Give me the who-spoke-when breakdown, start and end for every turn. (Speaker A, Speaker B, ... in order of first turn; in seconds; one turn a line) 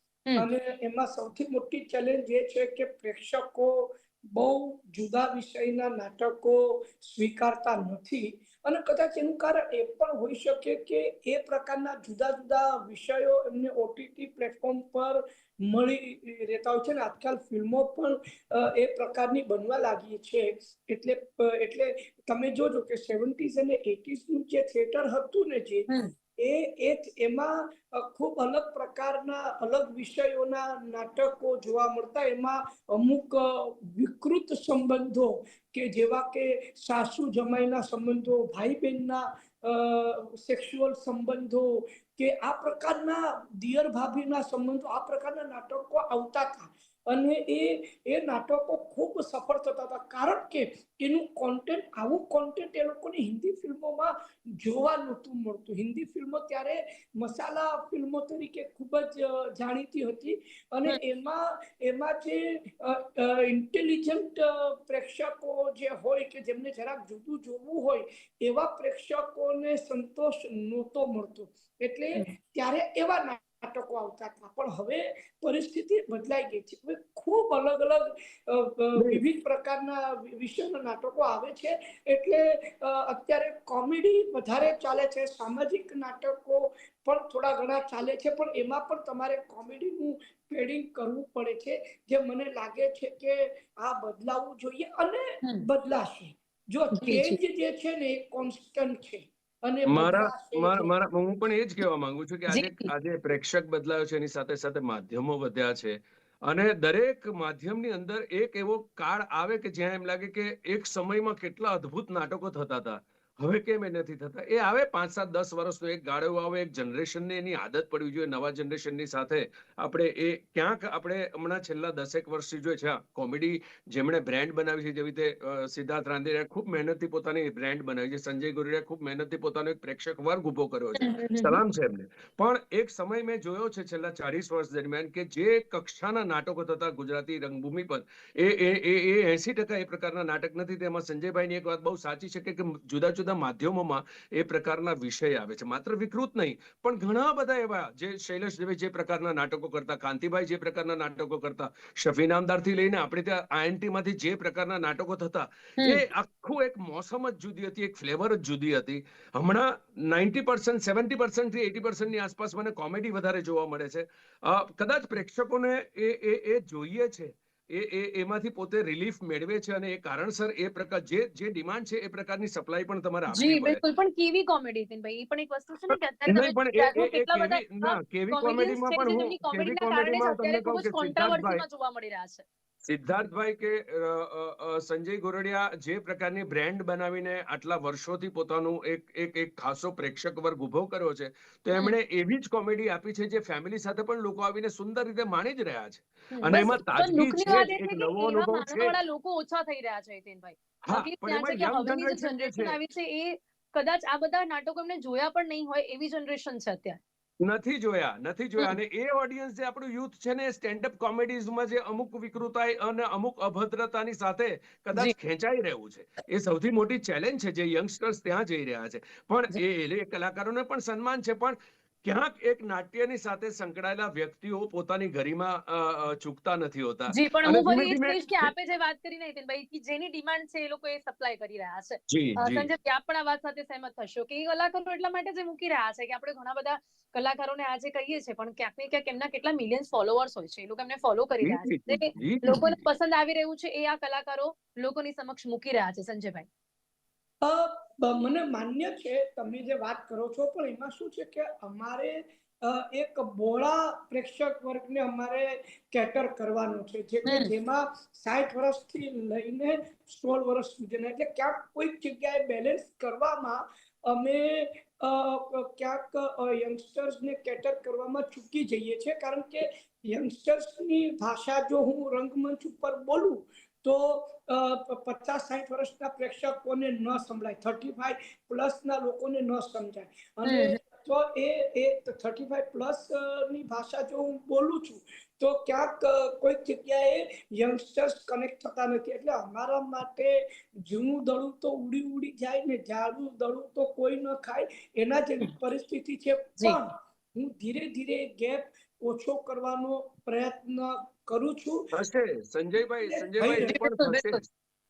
Speaker A: 0.4-100.9
Speaker B: 25.9-26.1
Speaker C: 79.0-79.2
Speaker B: 97.0-97.4
Speaker C: 99.9-106.0
Speaker B: 102.5-102.9
Speaker C: 106.5-173.8
Speaker B: 131.0-131.6
Speaker B: 173.3-182.4
Speaker C: 175.9-181.6
Speaker C: 182.8-198.9
Speaker B: 196.3-207.0
Speaker C: 200.8-202.8
Speaker C: 207.4-228.5
Speaker B: 227.1-246.5
Speaker C: 232.1-232.7
Speaker C: 241.4-242.8
Speaker A: 247.4-301.9
Speaker B: 280.4-280.8
Speaker C: 301.9-304.4
Speaker A: 302.8-303.8
Speaker B: 303.6-304.4